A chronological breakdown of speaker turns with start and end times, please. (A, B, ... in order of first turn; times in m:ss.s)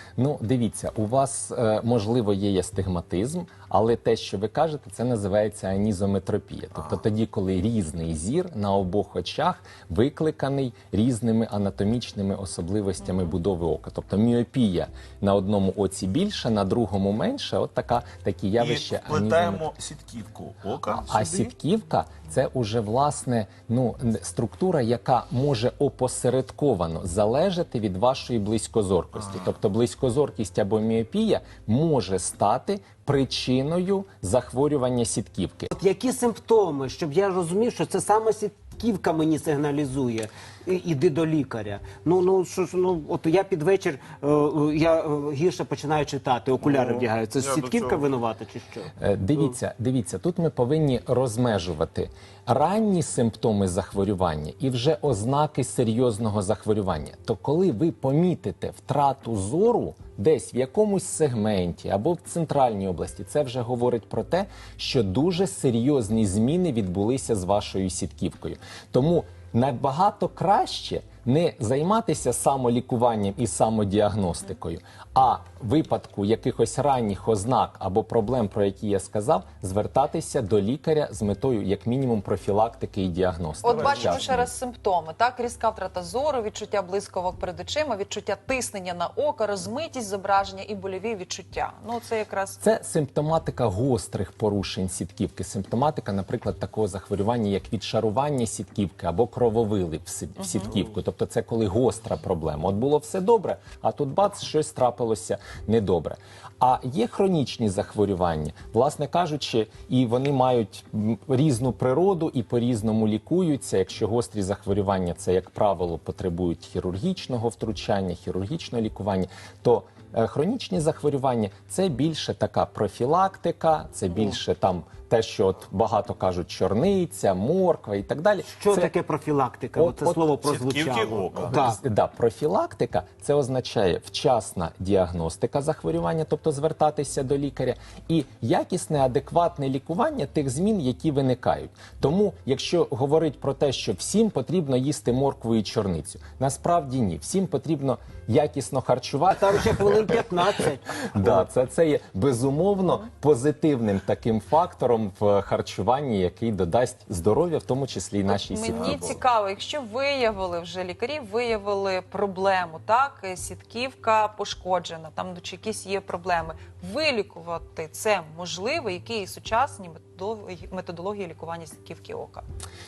0:00.2-0:19.6 A
0:18.6-0:21.5 B
0:20.9-0:35.7 A
0:35.7-0:49.5 C
0:46.6-0:48.1 B
0:49.0-1:24.5 A
1:23.6-1:32.6 D
1:23.6-1:24.3 B
1:32.6-2:08.9 A
1:40.4-1:40.7 D
2:08.5-2:11.8 C
2:09.8-2:10.2 A
2:10.4-2:11.6 B
2:11.5-2:29.6 A
2:29.3-2:31.4 C
2:31.1-2:39.2 A
2:38.3-2:52.4 D
2:38.7-2:39.0 B